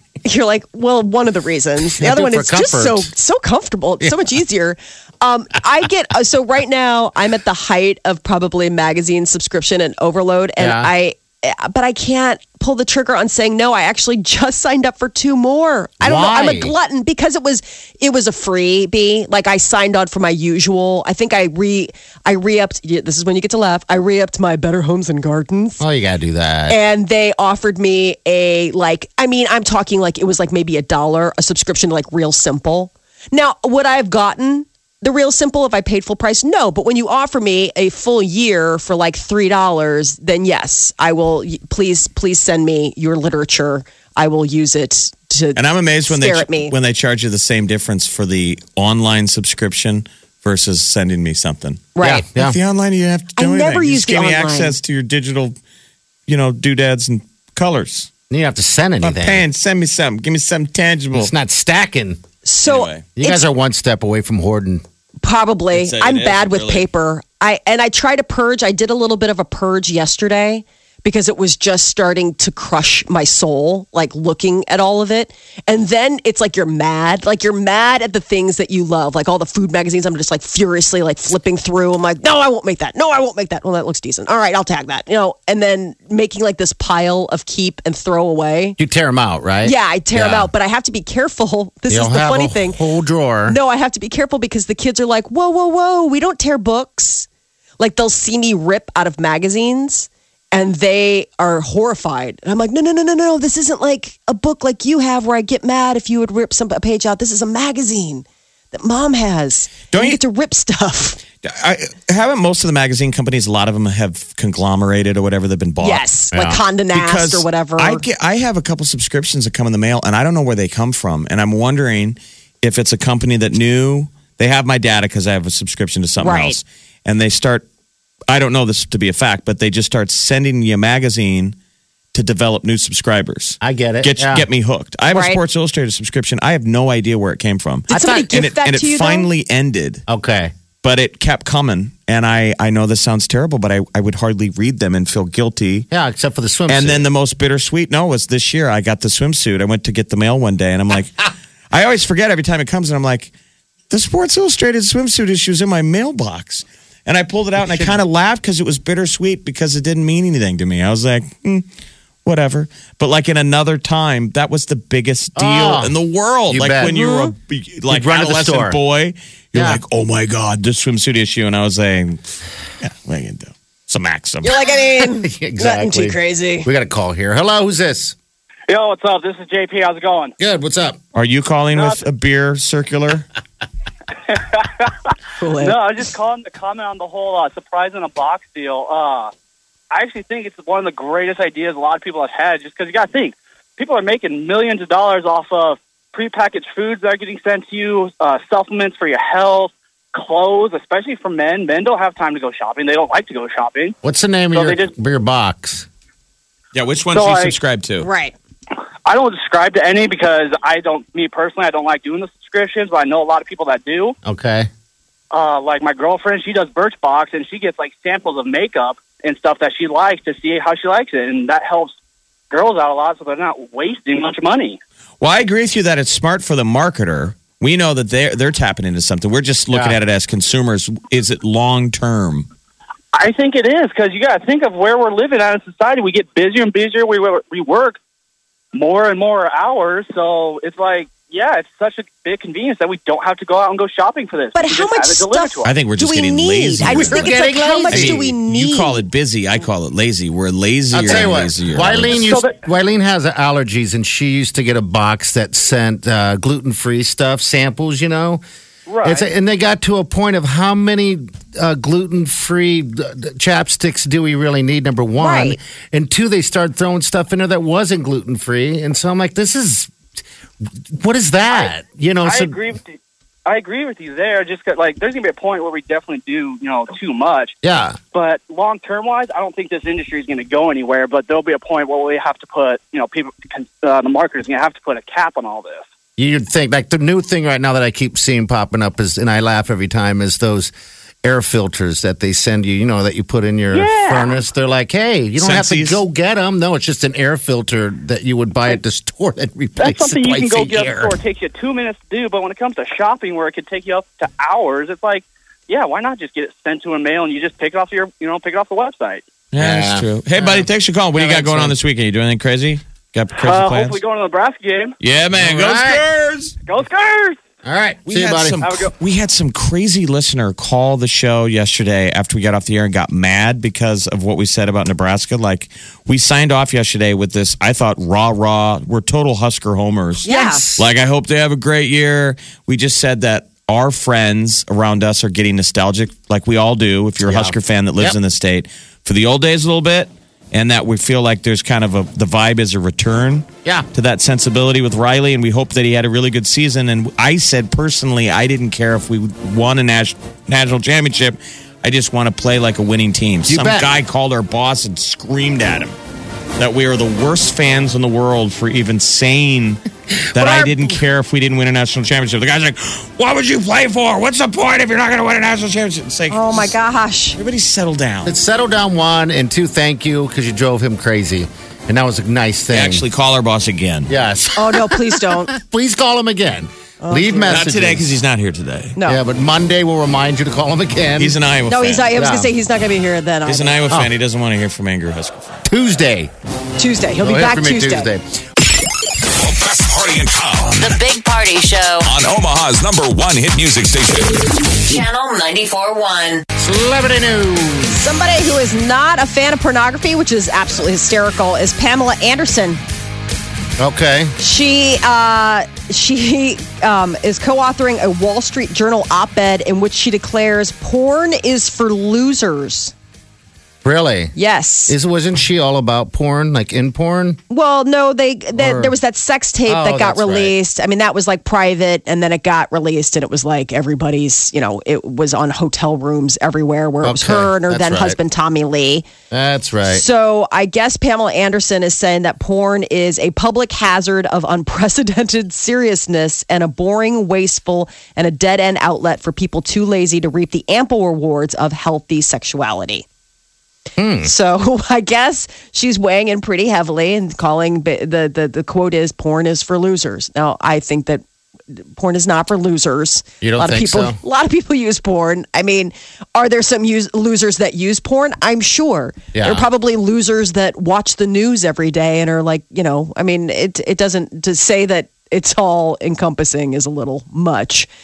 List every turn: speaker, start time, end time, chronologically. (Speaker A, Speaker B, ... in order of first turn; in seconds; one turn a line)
Speaker A: 0.2-25.8
Speaker B: 2.0-3.1
Speaker B: 10.6-10.9
Speaker B: 16.0-16.7
Speaker B: 25.8-26.8
Speaker A: 26.7-46.7
Speaker C: 45.5-55.5
Speaker A: 51.9-52.2
Speaker B: 52.0-52.6
Speaker A: 53.4-54.8
Speaker C: 56.3-58.1
Speaker B: 58.3-59.4
Speaker C: 59.0-61.3
Speaker B: 61.1-62.2
Speaker A: 62.4-63.4
Speaker C: 62.6-63.0
Speaker B: 63.1-64.8
Speaker A: 65.2-88.8
Speaker C: 65.7-66.8
Speaker B: 88.8-90.5
Speaker A: 89.6-92.8
Speaker B: 91.9-93.6
Speaker A: 93.5-97.3
Speaker A: 97.8-111.2
Speaker C: 109.9-110.2
Speaker C: 111.4-116.0
Speaker A: 115.8-118.0
Speaker B: 116.3-116.6
Speaker C: 116.9-127.6
Speaker A: 126.2-126.6
Speaker C: 128.3-131.5
Speaker C: 132.1-140.0
Speaker B: 133.6-134.4
Speaker A: 135.1-135.4
Speaker A: 137.9-139.3
Speaker B: 137.9-138.3
Speaker B: 140.1-140.5
Speaker C: 140.8-145.9
Speaker B: 145.9-147.0
Speaker C: 146.7-153.3
Speaker C: 153.9-161.7
Speaker B: 157.6-158.0
Speaker C: 162.2-172.2
Speaker B: 165.3-165.9
Speaker B: 166.5-166.9
Speaker A: 166.8-167.3
Speaker B: 167.9-168.8
Speaker B: 169.5-169.8
Speaker C: 172.8-174.5
Speaker A: 174.4-176.7
Speaker B: 175.1-178.1
Speaker D: 178.7-180.3
Speaker B: 180.4-181.0
Speaker C: 181.1-183.2
Speaker D: 181.7-182.0
Speaker D: 184.3-189.3
Speaker A: 185.4-185.8
Speaker D: 189.9-203.9
Speaker B: 204.0-205.9
Speaker D: 204.5-204.9
Speaker C: 206.7-208.1
Speaker D: 207.1-207.5
Speaker A: 208.0-208.3
Speaker D: 209.0-214.1
Speaker B: 214.2-214.7
Speaker D: 215.3-221.9
Speaker D: 222.5-224.8
Speaker C: 225.2-232.5
Speaker B: 229.7-230.0
Speaker D: 233.1-238.0
Speaker D: 238.7-245.7
Speaker A: 244.5-249.0
Speaker C: 245.6-247.4
Speaker B: 246.8-248.2
Speaker C: 247.9-252.3
Speaker B: 250.9-258.4
Speaker D: 252.2-252.6
Speaker D: 258.9-259.2
Speaker B: 259.0-269.9
Speaker A: 265.2-265.6
Speaker B: 270.9-272.6
Speaker D: 272.2-277.5
Speaker B: 277.6-278.0
Speaker D: 278.1-285.8
Speaker B: 286.2-301.1
Speaker D: 293.7-294.4
Speaker C: 295.4-296.0
Speaker D: 299.8-309.2
Speaker C: 309.5-314.0
Speaker B: 309.6-311.7
Speaker D: 313.4-314.9
Speaker C: 315.0-316.5
Speaker B: 315.3-316.0
Speaker D: 316.7-317.4
Speaker B: 317.6-318.6
Speaker C: 318.1-355.9
Speaker D: 318.6-318.9
Speaker A: 330.2-330.6
Speaker B: 330.3-330.9
Speaker B: 337.2-338.2
Speaker B: 353.5-353.9
Speaker C: 356.6-359.8
Speaker C: 360.3-366.7
Speaker B: 360.3-360.9
Speaker A: 366.3-367.4
Speaker C: 367.4-368.3
Speaker B: 368.2-373.0
Speaker C: 372.7-374.1
Speaker B: 374.1-378.1
Speaker A: 374.6-375.5
Speaker A: 377.0-377.6
Speaker C: 377.5-379.0
Speaker A: 378.9-379.2
Speaker B: 379.0-381.4
Speaker C: 381.2-382.1
Speaker A: 381.7-383.8
Speaker B: 382.1-382.5
Speaker C: 383.4-385.6
Speaker B: 385.6-386.3
Speaker A: 386.8-388.1
Speaker B: 387.2-388.4
Speaker E: 389.2-391.0
Speaker F: 390.8-392.1
Speaker E: 392.0-394.5
Speaker F: 394.9-396.4
Speaker B: 396.6-398.0
Speaker A: 397.9-402.8
Speaker B: 403.8-404.3
Speaker A: 404.4-412.9
Speaker B: 413.8-414.3
Speaker A: 414.4-414.9
Speaker B: 414.9-417.4
Speaker A: 417.5-429.1
Speaker B: 418.5-418.9
Speaker B: 419.6-420.5
Speaker B: 427.0-428.2
Speaker B: 429.3-430.0
Speaker A: 429.9-443.0
Speaker B: 444.0-444.3
Speaker A: 444.2-467.9
Speaker B: 453.4-454.2
Speaker B: 459.3-459.7